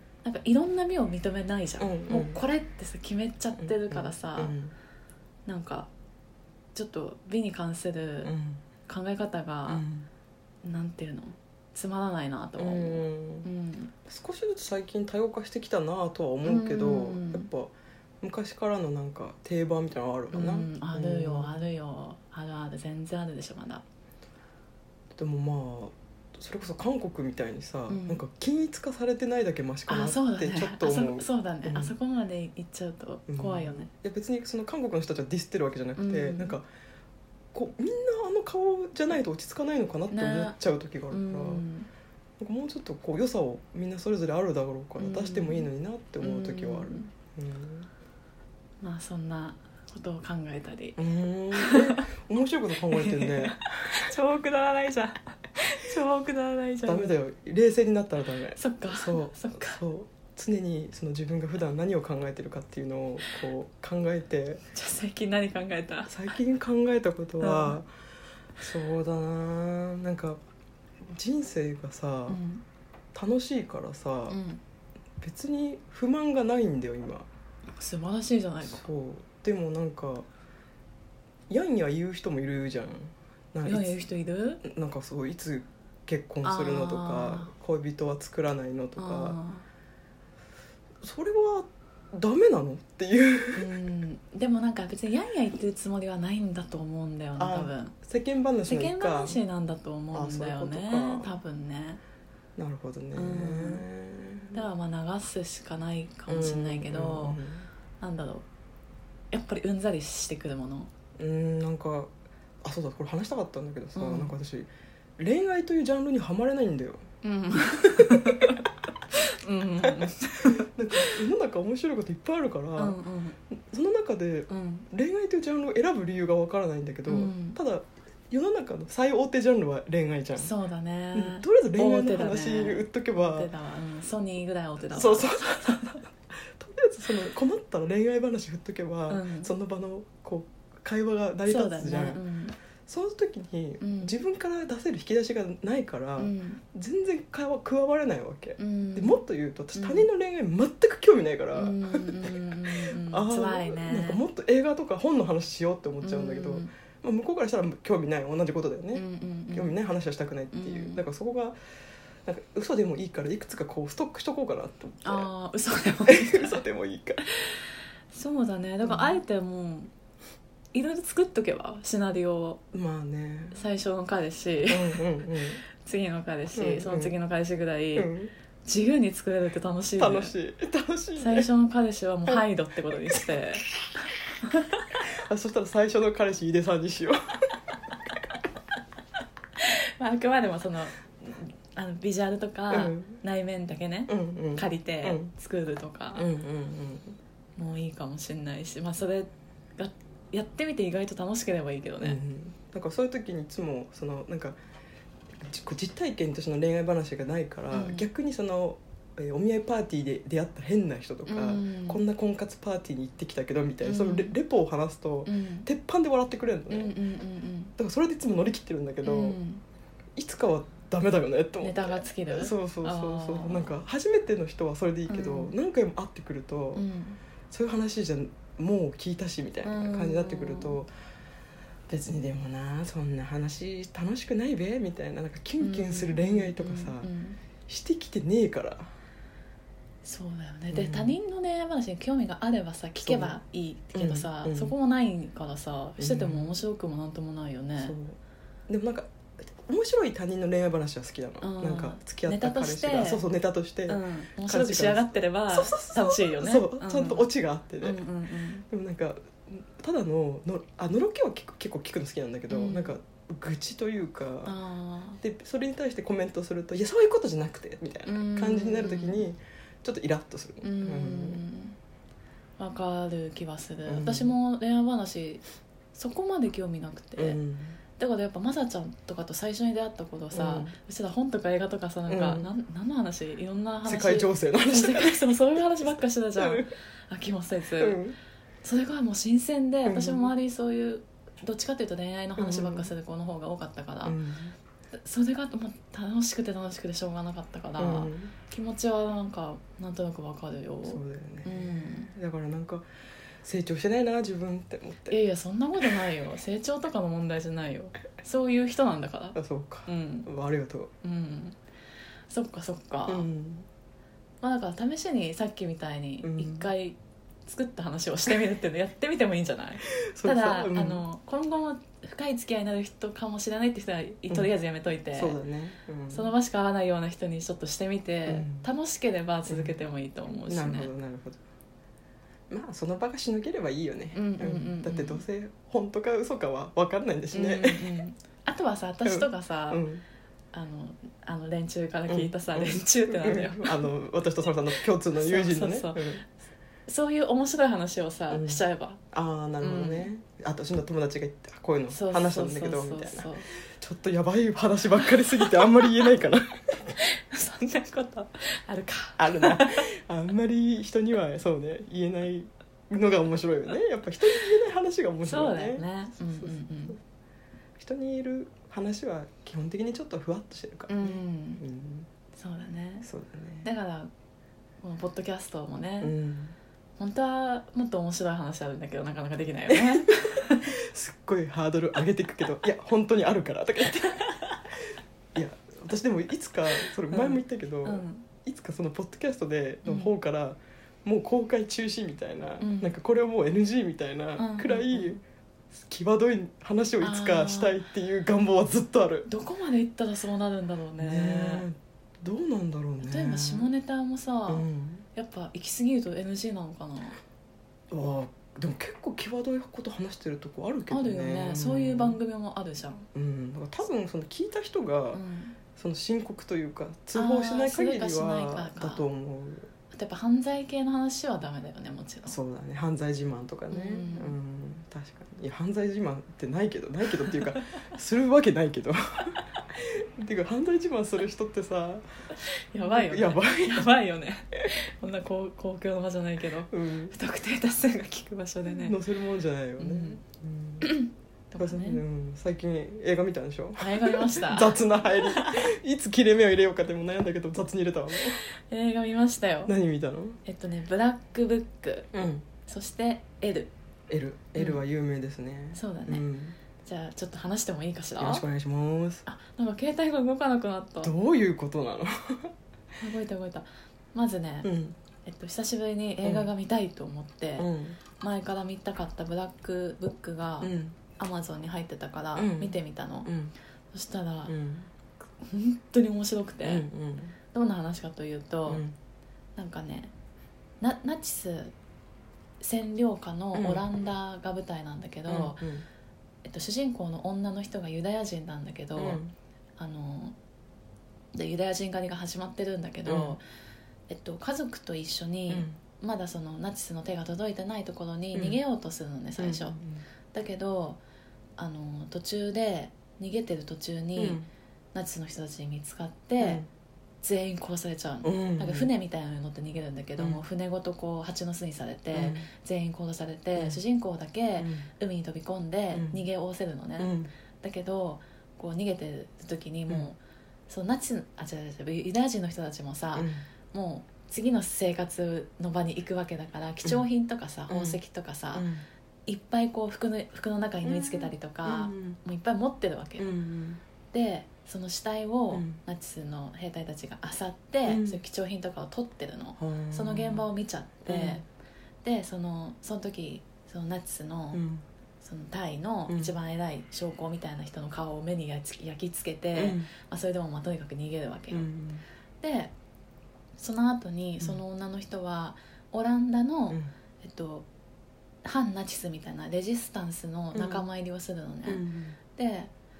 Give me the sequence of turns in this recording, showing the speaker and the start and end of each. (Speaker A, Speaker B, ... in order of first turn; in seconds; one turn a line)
Speaker A: 0.2-4.5
Speaker B: 1.8-2.4
Speaker B: 3.6-4.8
Speaker A: 5.5-5.9
Speaker A: 6.8-8.3
Speaker B: 8.2-8.6
Speaker A: 8.9-9.8
Speaker B: 9.7-10.1
Speaker A: 10.6-13.9
Speaker B: 12.6-13.5
Speaker B: 14.1-21.7
Speaker A: 16.4-17.5
Speaker A: 20.3-23.8
Speaker B: 25.1-31.9
Speaker A: 27.9-28.2
Speaker A: 29.9-33.9
Speaker B: 33.3-36.6
Speaker A: 36.0-36.5
Speaker B: 37.5-41.6
Speaker A: 40.1-40.6
Speaker A: 41.1-41.9
Speaker B: 42.4-47.9
Speaker A: 45.0-45.7
Speaker A: 46.2-47.1
Speaker A: 48.8-51.0
Speaker B: 51.0-53.9
Speaker A: 51.5-52.0
Speaker A: 52.9-57.1
Speaker B: 56.9-64.6
Speaker A: 58.6-59.8
Speaker A: 64.7-66.1
Speaker B: 66.1-67.9
Speaker A: 67.4-67.8
Speaker B: 68.6-70.4
Speaker B: 71.0-72.4
Speaker A: 72.3-72.6
Speaker B: 73.1-74.4
Speaker A: 74.3-74.6
Speaker B: 75.2-77.3
Speaker A: 77.8-78.8
Speaker B: 78.7-80.3
Speaker B: 81.5-84.0
Speaker A: 83.7-84.6
Speaker B: 84.6-89.4
Speaker A: 86.4-87.5
Speaker A: 89.0-89.6
Speaker B: 91.0-93.7
Speaker A: 93.5-97.9
Speaker B: 97.4-99.4
Speaker A: 98.7-102.0
Speaker B: 100.1-101.4
Speaker B: 102.6-104.7
Speaker A: 103.1-103.8
Speaker A: 104.5-107.4
Speaker B: 106.3-107.7
Speaker A: 108.0-108.4
Speaker A: 109.3-110.9
Speaker B: 111.2-117.1
Speaker A: 113.9-114.3
Speaker A: 117.2-121.2
Speaker B: 117.8-118.6
Speaker B: 119.8-123.0
Speaker A: 122.8-123.3
Speaker B: 123.5-130.5
Speaker A: 124.5-124.8
Speaker A: 127.1-127.6
Speaker A: 130.3-136.0
Speaker B: 131.1-133.5
Speaker B: 134.9-142.2
Speaker A: 139.1-139.5
Speaker A: 141.4-142.6
Speaker B: 142.9-161.6
Speaker A: 143.8-144.2
Speaker A: 146.2-146.6
Speaker A: 148.6-149.2
Speaker A: 149.7-150.1
Speaker A: 151.6-154.2
Speaker A: 156.0-156.7
Speaker A: 158.9-159.8
Speaker A: 160.5-161.0
Speaker B: 162.2-165.3
Speaker A: 165.0-166.6
Speaker B: 166.1-167.2
Speaker A: 167.3-169.9
Speaker B: 168.8-169.2
Speaker A: 170.7-172.6
Speaker B: 172.7-173.6
Speaker A: 173.5-175.1
Speaker B: 174.7-175.6
Speaker A: 175.8-178.1
Speaker B: 176.6-177.1
Speaker B: 177.9-178.3
Speaker A: 178.7-180.3
Speaker B: 180.0-181.5
Speaker A: 181.2-183.7
Speaker A: 184.4-184.8
Speaker B: 185.1-187.6
Speaker A: 189.6-196.3
Speaker B: 192.7-193.2
Speaker B: 194.1-195.3
Speaker B: 196.2-197.2
Speaker A: 197.6-202.2
Speaker B: 202.0-204.6
Speaker B: 205.4-216.9
Speaker A: 207.7-208.1
Speaker A: 211.3-212.0
Speaker A: 213.8-214.3
Speaker A: 215.2-215.7
Speaker A: 216.7-217.7
Speaker B: 217.8-219.4
Speaker A: 219.0-219.6
Speaker B: 220.2-226.8
Speaker A: 221.6-223.7
Speaker A: 225.1-225.6
Speaker A: 226.8-227.2
Speaker B: 227.5-230.9
Speaker A: 229.6-230.8
Speaker B: 231.9-237.1
Speaker A: 235.6-237.4
Speaker B: 237.7-238.9
Speaker A: 240.0-247.9
Speaker B: 240.7-241.2
Speaker B: 243.0-243.3
Speaker B: 243.9-244.7
Speaker B: 246.0-246.6
Speaker B: 247.8-258.0
Speaker A: 251.4-253.2
Speaker A: 253.9-257.3
Speaker A: 257.8-258.7
Speaker B: 258.7-264.6
Speaker A: 262.5-262.9
Speaker A: 264.4-265.2
Speaker B: 265.2-271.4
Speaker A: 268.1-269.2
Speaker A: 270.6-271.8
Speaker A: 272.6-275.4
Speaker B: 273.9-274.3
Speaker A: 275.9-277.4
Speaker B: 277.2-277.8
Speaker A: 278.0-288.0
Speaker B: 280.3-280.7
Speaker B: 282.1-282.5
Speaker B: 283.8-286.7
Speaker B: 287.8-288.2
Speaker A: 288.6-294.2
Speaker B: 289.8-290.3
Speaker B: 292.4-292.9
Speaker B: 294.1-294.6
Speaker A: 294.9-302.1
Speaker B: 297.8-298.3
Speaker B: 300.9-302.9
Speaker B: 303.4-305.2
Speaker A: 305.1-310.3
Speaker B: 309.3-310.9
Speaker A: 311.0-311.6
Speaker A: 312.3-313.3
Speaker B: 313.1-313.7
Speaker A: 314.4-325.4
Speaker B: 316.2-316.7
Speaker B: 320.1-321.0
Speaker B: 325.1-326.3
Speaker A: 326.1-330.9
Speaker B: 328.3-328.7
Speaker B: 329.5-329.8
Speaker B: 330.3-331.4
Speaker B: 332.5-338.0
Speaker A: 334.1-335.2
Speaker A: 337.3-339.8
Speaker B: 339.1-340.0
Speaker A: 340.5-343.9
Speaker B: 342.1-346.2
Speaker A: 345.2-346.2
Speaker A: 346.9-349.0
Speaker B: 348.3-356.9
Speaker A: 349.6-350.1
Speaker A: 351.9-353.5
Speaker A: 357.0-359.9
Speaker B: 359.2-366.6
Speaker A: 365.2-367.0
Speaker B: 367.8-372.1
Speaker A: 370.9-371.6
Speaker A: 372.4-373.1
Speaker B: 373.0-373.7
Speaker A: 373.6-374.1
Speaker A: 374.8-376.1
Speaker B: 376.0-376.6
Speaker A: 377.0-380.7
Speaker B: 379.7-380.0
Speaker B: 380.7-384.3
Speaker B: 385.3-395.2
Speaker A: 387.1-388.3
Speaker A: 389.8-390.1
Speaker A: 392.6-392.9
Speaker A: 394.4-395.2
Speaker B: 395.7-399.3
Speaker A: 397.0-397.8
Speaker A: 399.3-401.7
Speaker B: 401.0-403.7
Speaker A: 403.0-407.2
Speaker B: 404.5-405.1
Speaker B: 407.9-412.2
Speaker A: 410.9-413.1
Speaker B: 413.1-415.2
Speaker A: 415.1-415.6
Speaker B: 415.8-419.7
Speaker A: 417.1-419.0
Speaker A: 419.9-422.4
Speaker B: 422.3-432.0
Speaker A: 423.7-424.3
Speaker A: 432.4-439.0
Speaker B: 432.8-433.9
Speaker B: 436.7-437.1
Speaker B: 438.7-440.9
Speaker A: 439.8-440.2
Speaker A: 440.8-442.0
Speaker B: 441.6-448.4
Speaker A: 443.8-445.6
Speaker A: 448.7-449.7
Speaker B: 449.7-450.4
Speaker A: 450.4-452.1
Speaker B: 452.1-452.4
Speaker A: 452.7-453.7
Speaker B: 454.1-456.6
Speaker A: 455.8-456.3
Speaker A: 456.8-458.4
Speaker B: 458.2-459.2
Speaker A: 459.3-461.1
Speaker B: 461.0-462.5
Speaker A: 463.0-464.7
Speaker B: 464.6-464.9
Speaker A: 465.3-473.3
Speaker B: 466.2-466.5
Speaker B: 467.6-468.0
Speaker B: 470.6-470.9
Speaker B: 472.4-473.5
Speaker A: 473.9-474.6
Speaker B: 474.5-474.9
Speaker A: 475.4-476.9
Speaker B: 476.6-477.4
Speaker A: 477.5-478.8
Speaker B: 478.7-478.9
Speaker A: 479.6-480.1
Speaker A: 480.8-481.7
Speaker A: 482.6-485.6
Speaker B: 483.5-483.8
Speaker B: 485.3-485.9
Speaker A: 486.4-489.2
Speaker B: 488.9-489.3
Speaker A: 489.8-490.4
Speaker A: 491.3-493.4
Speaker B: 493.1-493.4
Speaker A: 494.1-499.8
Speaker B: 495.5-495.8
Speaker B: 498.3-498.6
Speaker B: 499.4-500.0
Speaker A: 500.3-501.0
Speaker A: 501.6-504.4
Speaker B: 504.2-504.5
Speaker A: 504.9-506.6
Speaker B: 506.4-506.7
Speaker A: 507.2-520.2
Speaker B: 508.2-508.9
Speaker B: 512.1-512.5
Speaker B: 514.6-514.9
Speaker B: 515.9-516.2
Speaker B: 517.0-517.3
Speaker A: 520.7-528.7
Speaker B: 523.1-523.4
Speaker B: 527.7-528.0
Speaker B: 528.5-528.9
Speaker A: 529.3-533.3
Speaker B: 530.8-532.2
Speaker B: 533.2-533.8
Speaker A: 534.1-541.4
Speaker B: 535.5-535.8
Speaker B: 537.9-538.2
Speaker B: 539.6-540.5
Speaker B: 541.1-541.4
Speaker A: 542.0-544.6
Speaker B: 544.5-544.9
Speaker A: 545.2-551.7
Speaker B: 549.5-549.9
Speaker B: 551.5-552.0
Speaker A: 552.4-552.7
Speaker A: 553.6-557.7
Speaker A: 558.4-562.7
Speaker B: 560.5-560.9
Speaker B: 561.7-562.2